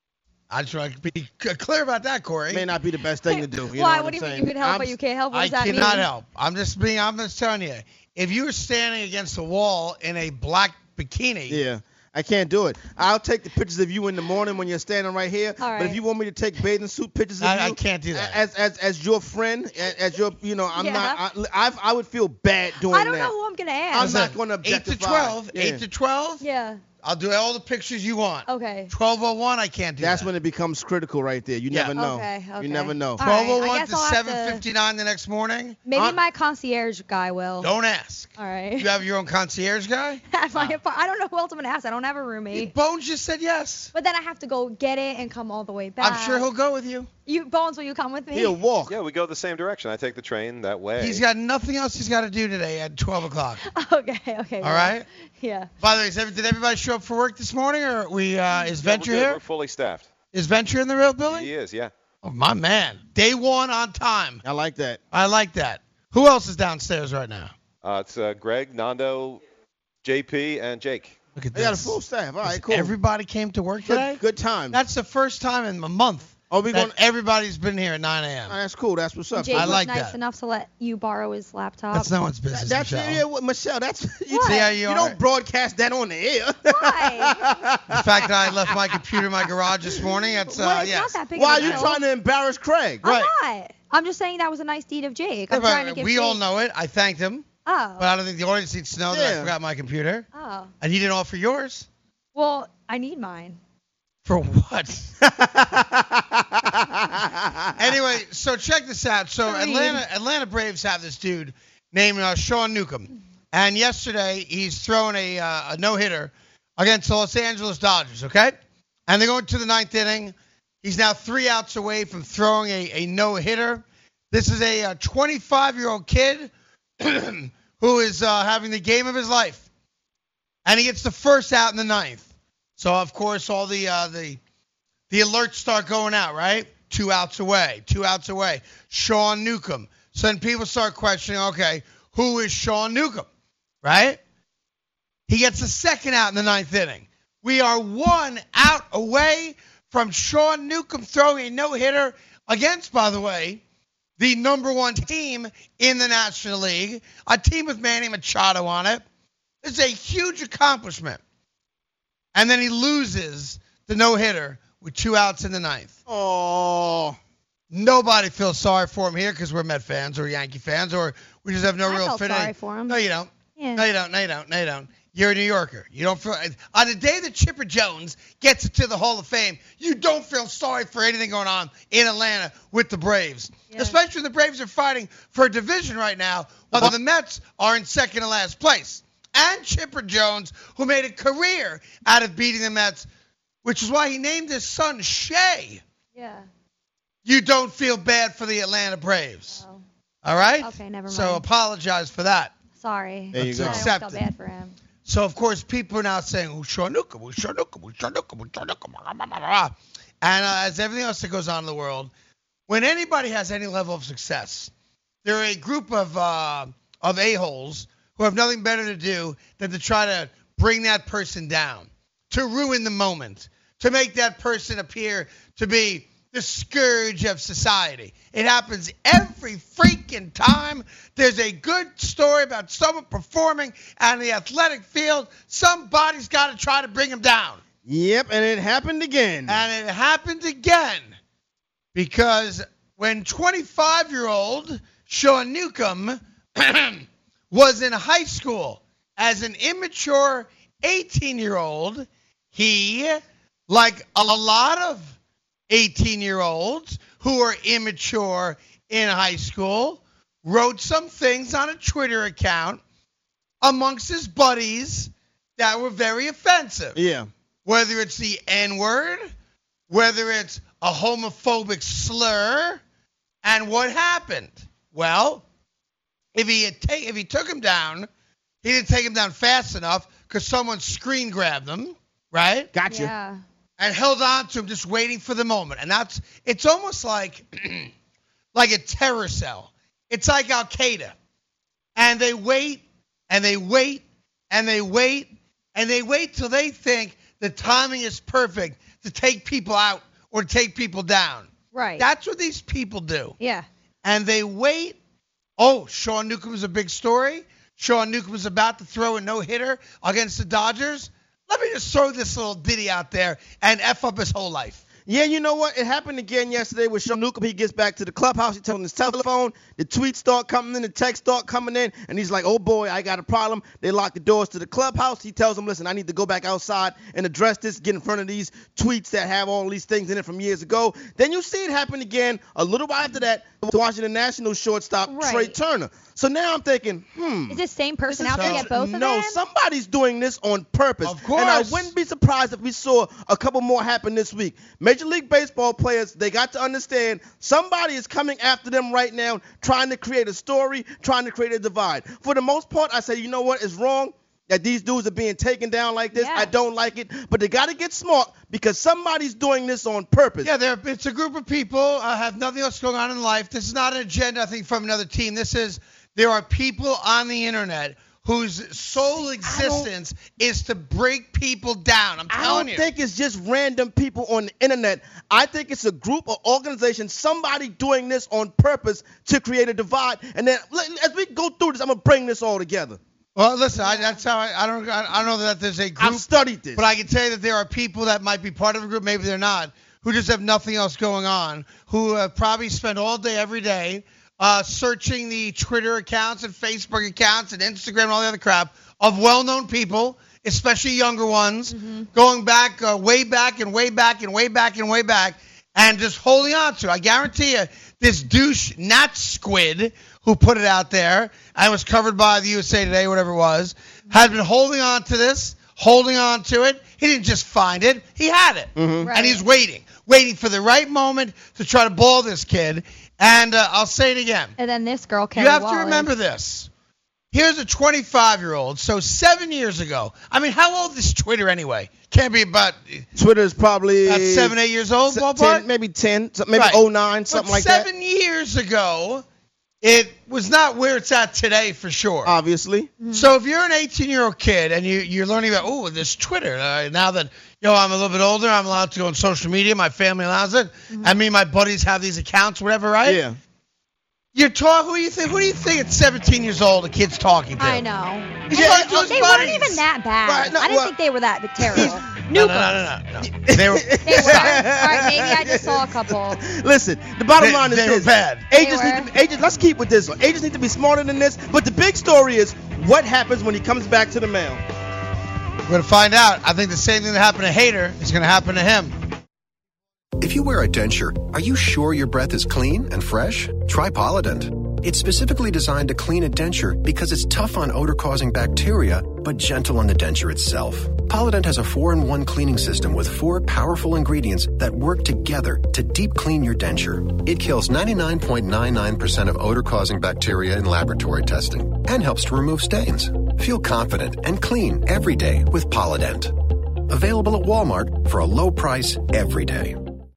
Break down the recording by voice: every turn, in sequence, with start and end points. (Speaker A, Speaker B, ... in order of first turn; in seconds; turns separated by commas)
Speaker A: 0.5-2.6, Speaker B: 2.5-4.9, Speaker C: 3.3-6.1, Speaker A: 5.3-11.6, Speaker B: 11.5-23.3, Speaker C: 15.6-16.0, Speaker A: 17.4-18.4, Speaker C: 20.7-21.2, Speaker C: 22.8-24.3, Speaker B: 23.9-25.8, Speaker A: 23.9-26.4, Speaker C: 26.4-26.8, Speaker A: 27.0-30.3, Speaker C: 28.5-28.9, Speaker B: 30.0-33.2, Speaker C: 31.9-34.6, Speaker A: 33.2-35.8, Speaker C: 35.9-37.7, Speaker A: 37.6-40.2, Speaker C: 38.4-38.9, Speaker C: 40.3-42.7, Speaker A: 42.5-43.9, Speaker C: 43.9-46.4, Speaker A: 46.0-47.1, Speaker C: 47.2-48.6, Speaker B: 48.3-49.0, Speaker D: 48.9-51.2, Speaker A: 51.0-53.6, Speaker C: 53.6-55.7, Speaker A: 54.6-55.1, Speaker A: 55.8-59.4, Speaker D: 58.8-60.1, Speaker A: 60.3-61.5, Speaker D: 61.3-61.9, Speaker A: 62.2-64.4, Speaker B: 64.4-65.0, Speaker A: 65.1-67.5, Speaker D: 67.8-69.4, Speaker D: 70.0-71.1, Speaker A: 71.4-74.2, Speaker B: 71.5-72.9, Speaker B: 73.9-74.8, Speaker A: 74.7-78.6, Speaker B: 76.5-76.9, Speaker B: 78.5-79.8, Speaker C: 79.3-82.1, Speaker A: 79.5-80.2, Speaker A: 81.9-83.2, Speaker B: 82.5-88.8, Speaker C: 84.3-84.8, Speaker A: 84.4-85.2, Speaker C: 86.6-87.5, Speaker A: 87.9-91.9, Speaker C: 90.5-92.0, Speaker B: 91.3-93.1, Speaker C: 93.0-96.4, Speaker A: 95.5-97.5, Speaker C: 97.6-98.1, Speaker A: 98.0-100.3, Speaker B: 99.1-99.5, Speaker C: 100.3-100.7, Speaker A: 100.8-101.9, Speaker C: 102.3-103.6, Speaker A: 104.2-105.1, Speaker B: 105.3-107.7, Speaker A: 107.8-118.5, Speaker C: 109.4-110.0, Speaker A: 119.1-129.6, Speaker A: 130.6-134.4, Speaker A: 135.1-143.3, Speaker A: 143.8-144.2, Speaker A: 145.3-153.6, Speaker A: 154.2-159.0, Speaker A: 159.6-161.2, Speaker A: 162.3-165.9, Speaker B: 166.1-167.2, Speaker A: 167.7-193.1, Speaker C: 171.8-173.0, Speaker C: 173.6-173.8, Speaker C: 183.7-183.9, Speaker A: 193.6-195.8, Speaker C: 196.1-196.5, Speaker A: 197.2-199.6, Speaker C: 199.5-199.8, Speaker A: 200.2-202.5, Speaker C: 200.4-201.4, Speaker C: 202.8-204.8, Speaker B: 203.3-203.9, Speaker A: 203.3-204.2, Speaker A: 205.0-212.1, Speaker A: 212.7-214.7, Speaker A: 215.2-237.6, Speaker B: 237.8-239.6, Speaker A: 239.5-241.1, Speaker A: 241.9-255.1, Speaker A: 255.7-262.8, Speaker A: 263.6-267.0, Speaker B: 266.9-267.3, Speaker A: 267.6-269.3, Speaker A: 269.9-272.8, Speaker A: 273.4-275.4, Speaker A: 276.4-278.1, Speaker A: 278.6-282.7, Speaker B: 282.7-283.1, Speaker C: 282.9-283.4, Speaker A: 283.8-287.9, Speaker A: 288.5-291.1, Speaker A: 291.9-303.4, Speaker C: 301.7-302.1, Speaker C: 303.4-303.6, Speaker A: 304.0-305.0, Speaker A: 305.6-314.8, Speaker B: 315.1-360.5, Speaker C: 335.1-335.6, Speaker C: 337.5-339.4, Speaker A: 338.3-338.7, Speaker A: 341.0-341.9, Speaker C: 356.1-356.5, Speaker A: 360.4-372.9, Speaker B: 369.4-369.9, Speaker B: 372.3-383.0, Speaker A: 383.4-424.5, Speaker C: 383.8-384.2, Speaker B: 386.0-386.8, Speaker C: 401.7-402.1, Speaker B: 418.8-419.1, Speaker C: 419.0-419.4, Speaker C: 424.6-426.1, Speaker A: 425.4-426.7, Speaker A: 427.3-433.0, Speaker B: 433.1-434.5, Speaker A: 434.1-435.6, Speaker B: 435.1-437.9, Speaker A: 436.5-439.2, Speaker A: 439.8-442.3, Speaker B: 442.2-442.9, Speaker C: 443.0-443.3, Speaker A: 443.1-453.2, Speaker B: 453.0-453.4, Speaker A: 454.4-457.8, Speaker C: 457.6-462.8, Speaker A: 458.5-459.8, Speaker B: 458.5-459.1, Speaker B: 460.2-460.9, Speaker B: 461.6-462.0, Speaker A: 461.8-464.6, Speaker B: 463.3-474.6, Speaker C: 464.0-466.4, Speaker A: 467.4-468.5, Speaker C: 468.5-469.1, Speaker A: 475.7-478.9, Speaker E: 480.2-510.0